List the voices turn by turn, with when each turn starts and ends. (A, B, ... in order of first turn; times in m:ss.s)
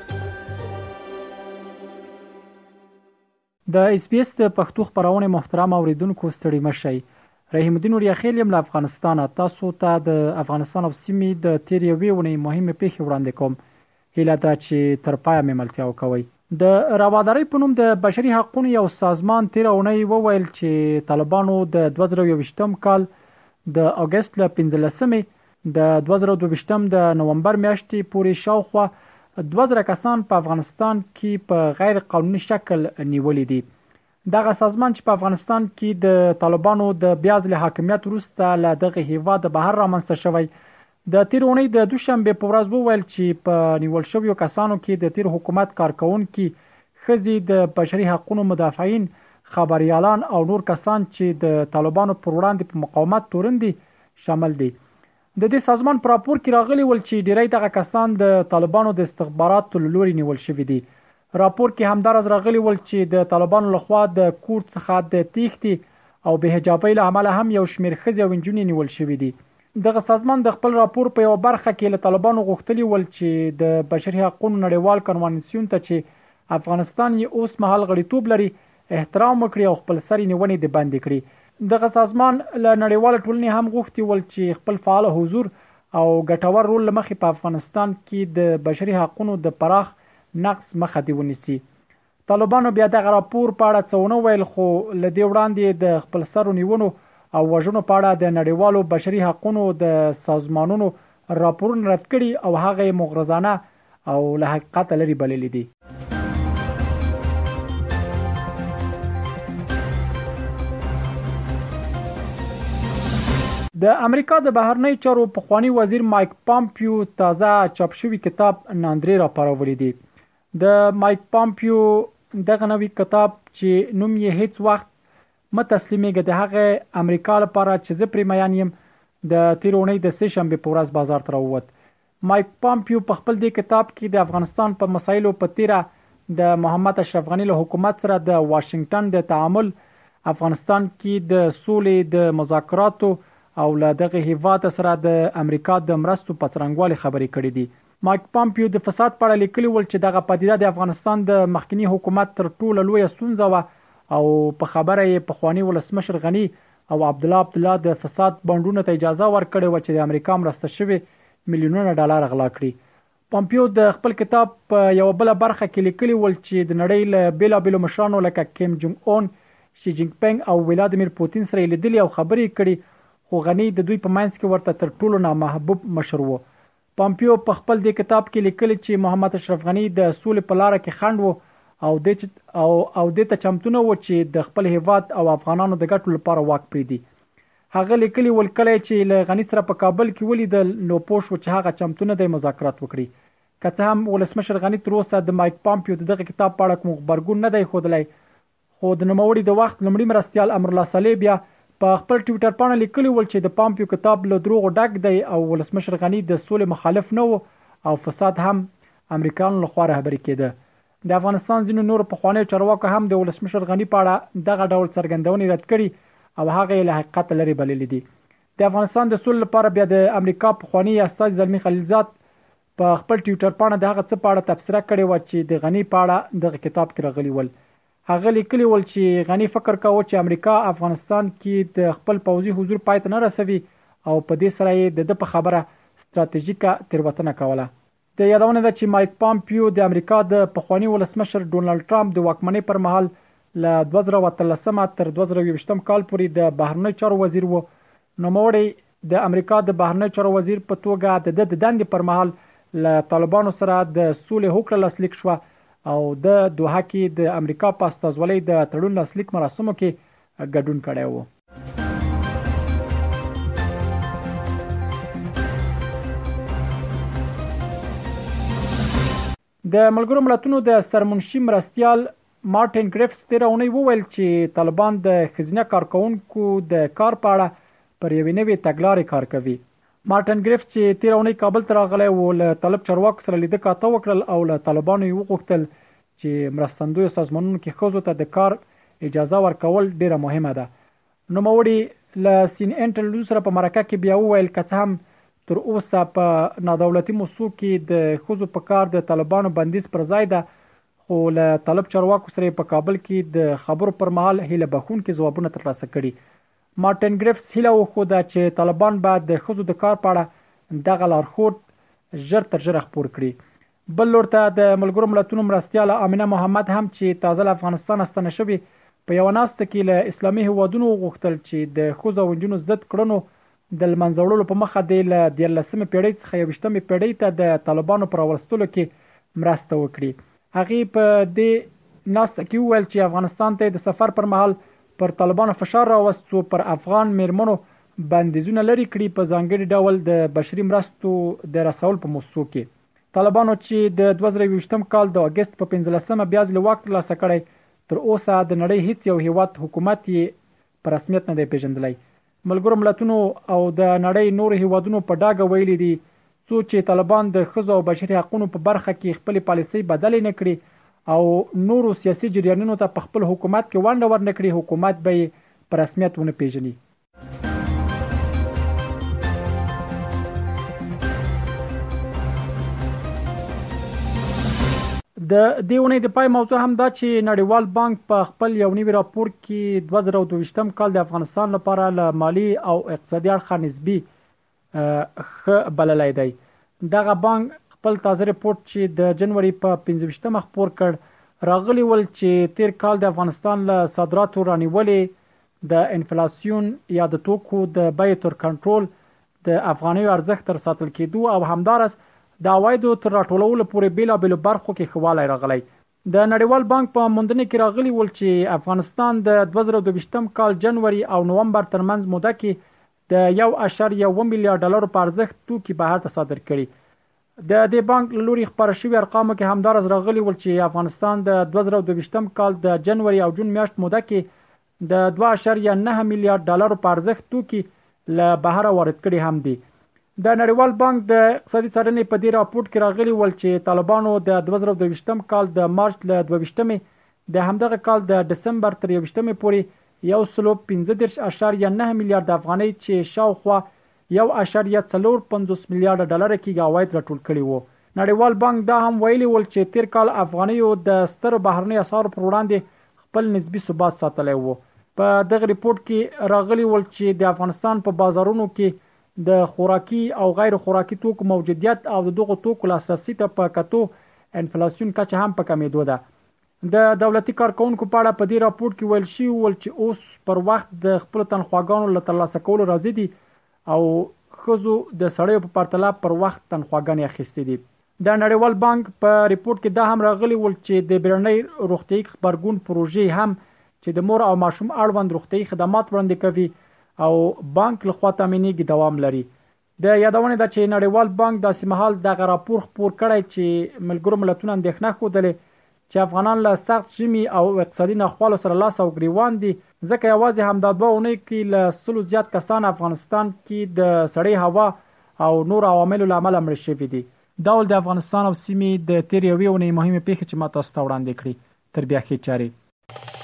0:03.7-0:13.6 A
0:14.1-0:23.1 A
0:23.7-0:33.6 A
0:34.3-0:40.5 A
0:41.1-0:54.8 A
0:55.4-1:31.6 A
1:32.3-1:45.7 A
1:53.8-2:00.0 A
2:00.6-2:04.9 A
2:05.5-2:08.7 A
2:09.2-2:11.7 A
2:12.2-2:19.7 A
2:20.2-2:42.8 A
2:43.3-2:56.4 A
2:57.0-3:07.0 A
3:07.7-3:13.1 A
3:13.6-3:18.1 A
3:18.8-3:30.5 A
3:31.1-3:38.0 A
3:38.6-3:42.1 A
3:42.8-3:47.5 A
3:48.1-4:21.3 A
4:29.6-4:50.7 A
4:51.3-5:00.4 A
5:01.1-5:06.1 A
5:06.8-5:13.4 A
5:13.9-6:06.8 A
6:15.2-6:24.1 A
6:24.7-6:38.9 A
6:39.4-6:56.7 A
6:57.4-7:04.3 A
7:04.8-7:09.6 A
7:10.2-7:46.0 A
7:46.6-7:53.1 A
7:53.7-8:09.3 A
8:09.8-8:15.4 A
8:15.9-8:32.5 A